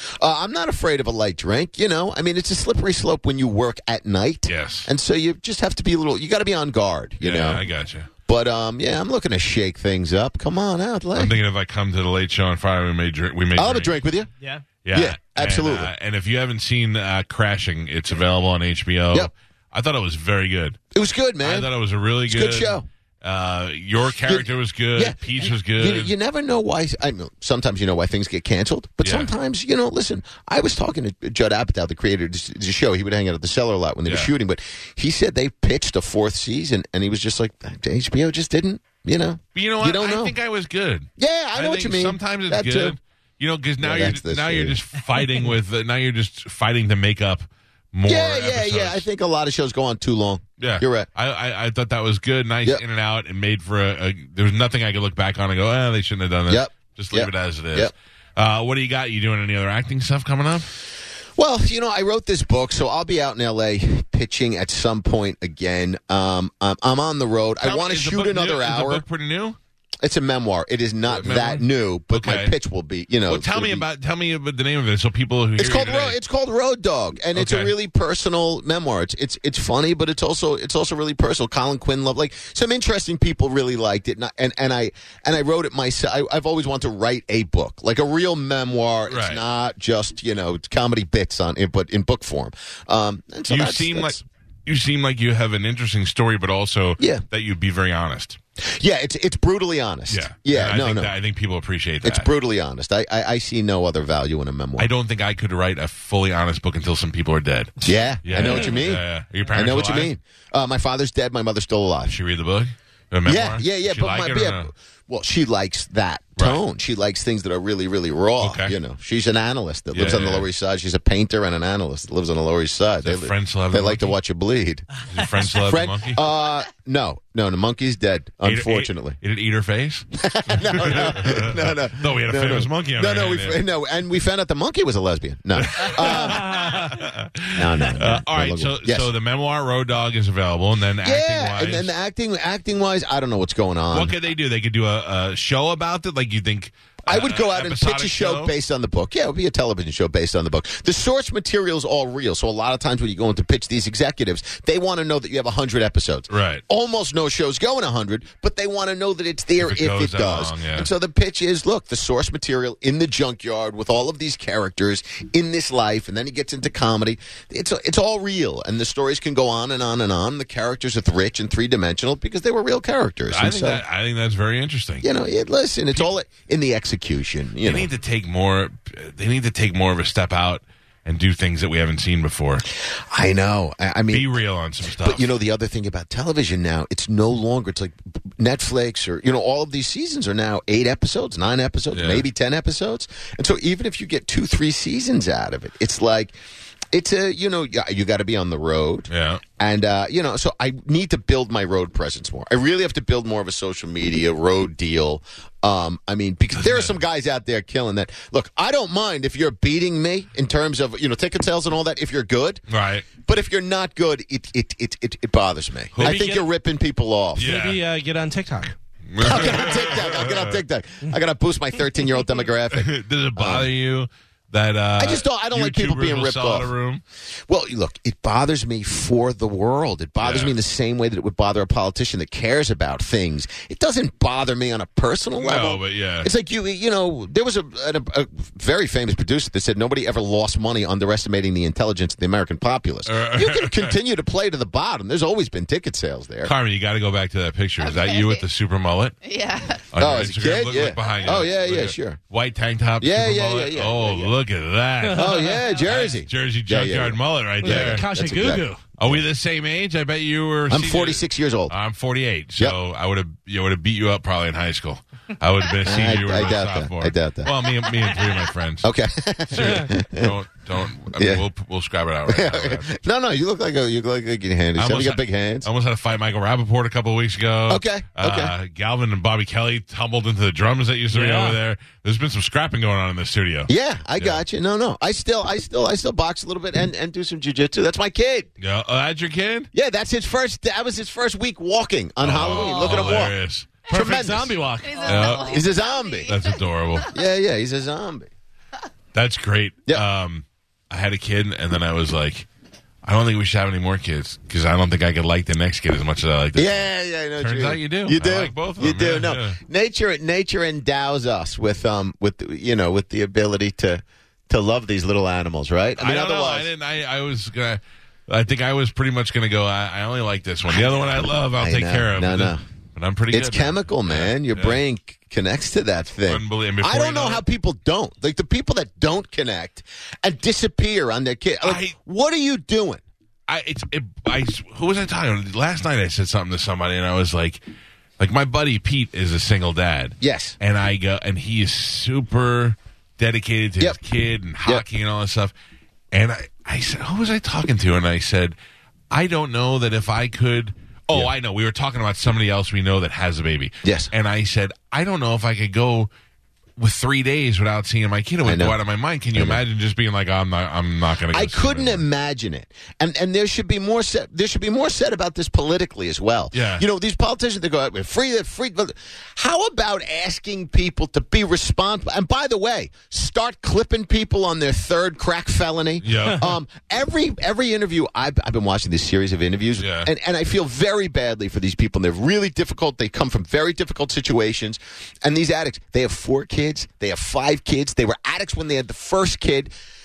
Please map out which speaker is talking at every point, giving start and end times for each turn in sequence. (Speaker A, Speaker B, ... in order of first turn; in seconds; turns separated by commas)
Speaker A: 0.2-7.6, Speaker B: 4.5-4.9, Speaker B: 7.2-8.1, Speaker A: 8.3-11.4, Speaker B: 11.1-13.9, Speaker A: 13.6-14.3, Speaker B: 14.8-20.8, Speaker A: 14.9-15.9, Speaker A: 20.9-21.7, Speaker B: 21.4-26.1, Speaker A: 22.3-22.9, Speaker A: 24.2-40.3, Speaker B: 29.0-29.3, Speaker B: 34.0-34.3, Speaker B: 39.5-49.0, Speaker A: 41.2-43.0, Speaker A: 43.8-44.8, Speaker A: 48.1-51.1, Speaker B: 50.6-60.7, Speaker A: 56.5-57.9, Speaker A: 61.4-69.0, Speaker B: 67.6-69.6, Speaker A: 70.0-73.8, Speaker B: 71.1-72.5, Speaker B: 73.3-76.2, Speaker A: 75.6-94.2, Speaker B: 77.3-77.7, Speaker B: 89.1-89.4, Speaker B: 93.5-98.4, Speaker A: 97.0-97.2, Speaker A: 98.6-101.1, Speaker B: 100.1-102.3, Speaker A: 102.0-104.9, Speaker B: 104.8-110.1, Speaker A: 107.8-112.2, Speaker B: 112.1-114.7, Speaker A: 113.2-129.2, Speaker B: 118.4-118.8, Speaker B: 119.9-120.5, Speaker B: 123.0-124.2, Speaker B: 125.1-126.2, Speaker B: 128.4-133.6, Speaker A: 130.2-136.9, Speaker B: 135.6-141.9, Speaker C: 136.0-136.9, Speaker A: 137.5-139.1, Speaker A: 141.0-144.1, Speaker B: 143.9-148.5, Speaker A: 147.1-173.8, Speaker B: 156.3-156.6, Speaker B: 159.6-160.9, Speaker B: 173.3-175.1, Speaker A: 175.0-177.9, Speaker B: 177.6-182.6, Speaker A: 182.8-184.3, Speaker B: 184.1-185.3, Speaker A: 184.9-196.3, Speaker B: 191.9-192.2, Speaker A: 196.9-212.6, Speaker B: 199.1-199.4, Speaker B: 206.6-206.9, Speaker B: 212.7-213.1, Speaker A: 213.2-217.5, Speaker B: 215.9-216.4, Speaker C: 216.0-216.4, Speaker B: 217.3-217.8, Speaker C: 217.4-218.7, Speaker B: 219.1-220.6, Speaker A: 219.2-223.7, Speaker B: 222.7-227.0, Speaker A: 225.0-226.7, Speaker A: 227.5-246.5, Speaker B: 230.2-230.6, Speaker B: 235.4-236.3, Speaker B: 243.1-244.0, Speaker B: 246.4-249.2, Speaker D: 247.8-248.4, Speaker D: 249.2-249.9, Speaker B: 249.9-268.9, Speaker A: 249.9-252.2, Speaker A: 253.0-254.3, Speaker C: 255.0-255.6, Speaker A: 255.1-259.2, Speaker C: 257.6-258.8, Speaker A: 260.7-261.7, Speaker A: 265.8-267.7, Speaker A: 268.8-270.4, Speaker B: 269.5-272.9, Speaker C: 269.6-269.8, Speaker A: 271.1-271.4, Speaker A: 272.3-275.7, Speaker B: 274.8-284.4, Speaker A: 277.7-278.5, Speaker C: 281.1-281.6, Speaker A: 283.7-288.5, Speaker B: 288.6-289.7, Speaker A: 289.7-293.3, Speaker B: 292.2-293.9, Speaker D: 292.6-293.0, Speaker C: 293.9-295.5, Speaker A: 293.9-294.6, Speaker D: 294.8-297.1, Speaker B: 295.0-295.6, Speaker A: 295.3-296.4, Speaker B: 296.2-297.1, Speaker A: 297.0-298.3, Speaker B: 299.1-302.4, Speaker B: 303.0-306.9, Speaker A: 306.5-316.7, Speaker B: 307.4-309.6, Speaker B: 316.0-324.8, Speaker A: 320.7-322.6, Speaker A: 323.3-333.0, Speaker B: 326.2-327.4, Speaker B: 331.6-331.9, Speaker B: 333.5-337.6, Speaker B: 338.2-345.5, Speaker A: 340.2-340.6, Speaker B: 346.1-348.5, Speaker B: 349.1-356.1, Speaker A: 353.8-354.1, Speaker B: 356.8-362.0, Speaker A: 358.4-358.8, Speaker A: 359.3-359.6, Speaker A: 361.3-389.7, Speaker B: 366.5-366.8, Speaker B: 376.0-376.5, Speaker B: 379.8-380.1